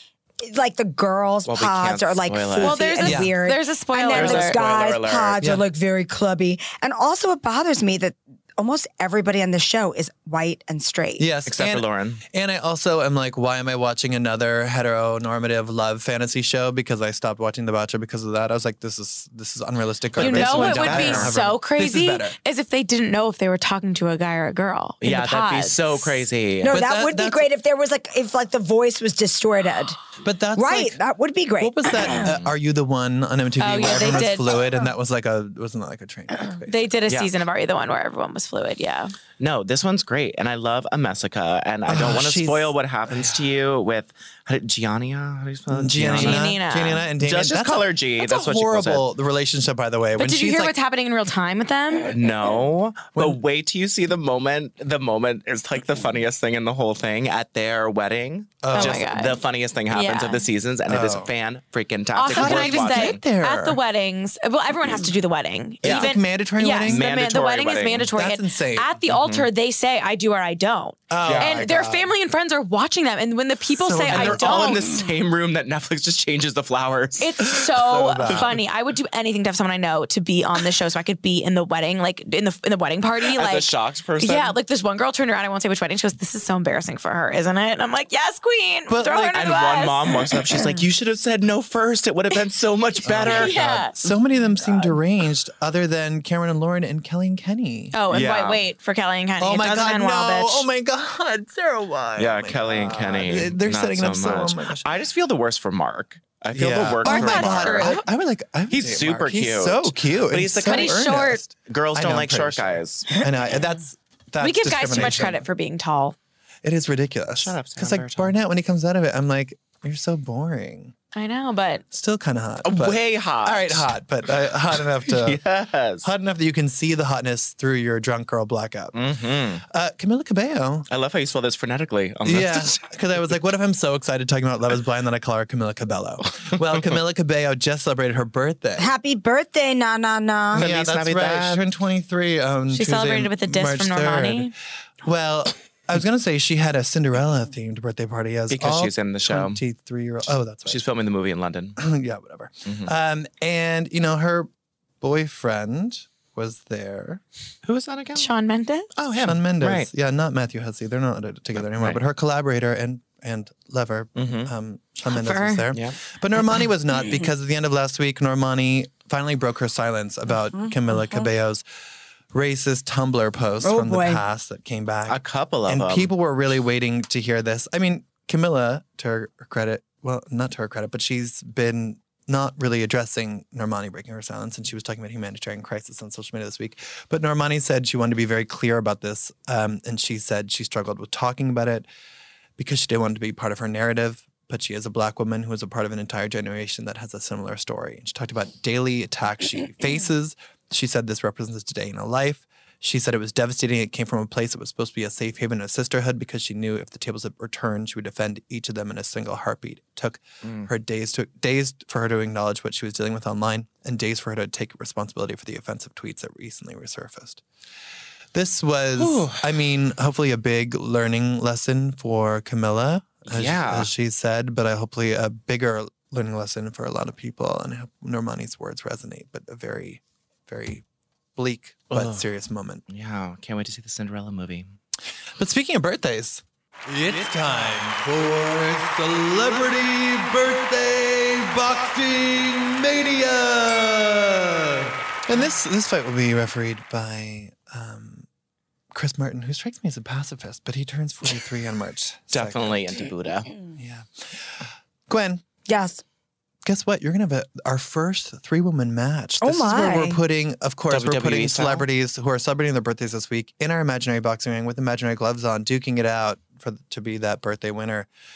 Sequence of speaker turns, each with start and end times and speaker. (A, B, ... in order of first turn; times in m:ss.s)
0:00.4-0:11.3 A
0:01.5-0:02.9 B
0:02.6-0:04.6 C
0:03.0-0:03.4 D
0:04.1-0:05.5 B
0:05.4-0:05.6 D
0:11.2-0:22.4 D
0:11.5-0:12.2 B
0:20.2-0:21.4 B
0:20.2-0:26.2 C
0:25.0-0:26.8 B
0:26.6-0:30.0 A
0:26.7-0:27.5 D
0:30.2-0:31.0 D
0:30.6-0:32.3 A
0:31.6-0:36.9 D
0:32.2-0:32.5 B
0:33.6-0:34.6 C
0:36.7-0:39.1 C
0:39.4-0:46.4 B
0:41.9-0:43.4 D
0:45.7-0:50.7 D
0:46.1-0:47.0 C
0:47.2-0:49.1 B
0:50.2-0:52.1 C
0:52.1-1:03.2 B
0:58.6-0:59.1 D
0:58.7-1:00.5 C
1:00.9-1:01.3 D
1:02.2-1:15.0 C
1:02.3-1:03.8 D
1:05.8-1:06.1 B
1:05.8-1:07.1 D
1:06.8-1:08.1 B
1:08.1-1:09.0 D
1:09.1-1:09.5 B
1:11.1-1:12.1 D
1:11.2-1:11.6 B
1:13.7-1:14.8 D
1:14.1-1:17.5 B
1:17.2-1:30.7 C
1:17.6-1:18.6 D
1:23.3-1:24.6 B
1:28.9-1:29.6 D
1:29.3-1:34.1 B
1:33.0-1:38.0 D
1:33.2-1:33.9 C
1:37.9-1:40.7 C
1:38.1-1:38.6 B
1:39.4-1:44.8 D
1:42.2-1:48.0 B
1:46.5-1:55.5 D
1:47.0-1:48.0 C
1:48.7-1:51.1 B
1:50.6-1:51.4 C
1:51.6-1:53.2 B
1:54.4-1:56.2 C
1:56.6-2:00.9 D
1:57.4-1:58.4 B
2:01.1-2:01.8 C
2:01.9-2:05.4 D
2:02.6-2:03.9 B
2:05.1-2:06.1 B
2:06.0-2:09.0 D
2:08.9-2:09.6 B
2:09.6-2:10.9 D
2:10.9-2:12.9 B
2:12.2-2:18.9 D
2:18.8-2:20.7 A
2:20.5-2:21.6 B
2:20.6-2:30.8 D
2:22.7-2:24.5 C
2:28.5-2:29.6 B
2:30.7-2:31.8 B
2:31.8-2:34.5 D
2:32.7-2:32.9 B
2:35.0-2:37.2 D
2:37.6-2:38.3 B
2:38.2-2:38.9 C
2:39.0-2:39.9 B
2:39.2-2:51.6 D
2:41.6-2:42.0 B
2:44.2-2:44.5 B
2:45.1-2:45.6 C
2:50.5-2:51.3 A
2:52.3-3:11.9 D
2:53.6-2:54.2 A
2:55.1-2:56.1 B
3:12.6-3:37.4 D
3:30.4-3:30.7 B
3:38.3-3:50.8 D
3:39.0-3:39.5 B
3:43.3-3:43.9 B
3:51.4-3:52.8 D
3:51.9-3:52.2 B
3:52.9-3:54.7 B
3:55.4-4:08.3 D
4:08.9-4:13.0 D
4:12.3-4:13.5 B
4:13.8-4:15.4 D
4:15.7-4:16.0 A
4:16.6-4:28.1 D
4:19.4-4:20.2 A
4:20.9-4:21.9 B